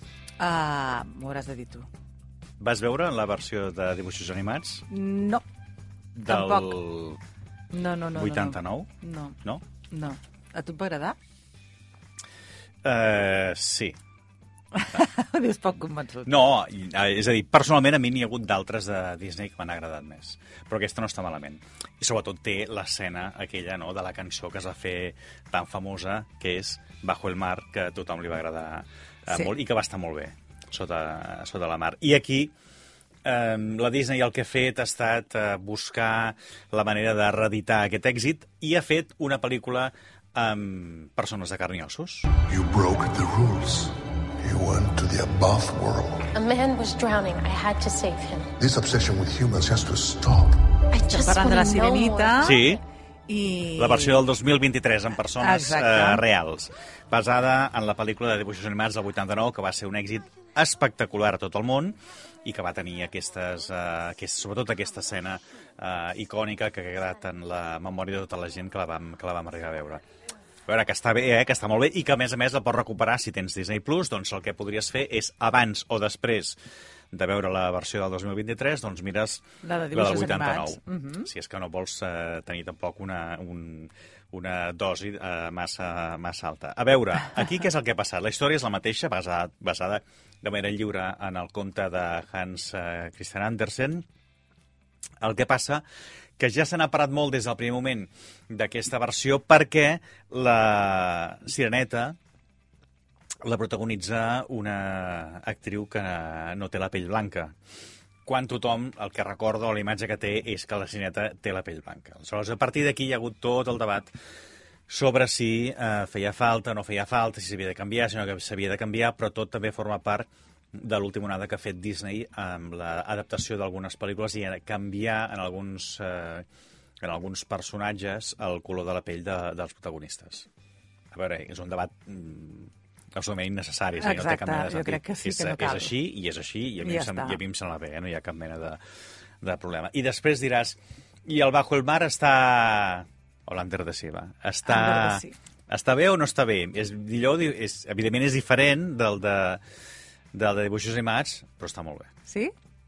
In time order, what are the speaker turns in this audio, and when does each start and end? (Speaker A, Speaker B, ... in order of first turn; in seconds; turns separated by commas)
Speaker A: 0.4-1.9, Speaker B: 2.6-4.8, Speaker A: 4.9-5.4, Speaker B: 6.2-7.2, Speaker A: 6.3-6.8, Speaker A: 7.7-9.3, Speaker B: 8.1-8.9, Speaker A: 9.9-11.2, Speaker B: 12.8-14.0, Speaker A: 14.7-16.3, Speaker B: 16.2-32.5, Speaker B: 33.2-42.3, Speaker C: 42.5-46.3, Speaker D: 46.3-48.5, Speaker C: 48.6-50.6, Speaker D: 50.9-52.5, Speaker A: 51.1-52.6, Speaker B: 52.4-52.8, Speaker A: 53.3-54.2, Speaker B: 53.7-70.0, Speaker A: 55.4-56.2, Speaker B: 70.7-76.6, Speaker B: 77.1-94.0, Speaker A: 79.6-81.3, Speaker B: 95.2-95.8, Speaker B: 96.4-102.2, Speaker B: 103.4-107.5, Speaker B: 108.2-114.1, Speaker B: 114.9-126.5, Speaker B: 127.0-130.5, Speaker B: 131.1-138.8, Speaker A: 134.0-135.9, Speaker A: 136.8-137.4, Speaker B: 139.4-149.6, Speaker A: 144.7-145.3, Speaker B: 150.3-152.1, Speaker A: 152.3-152.5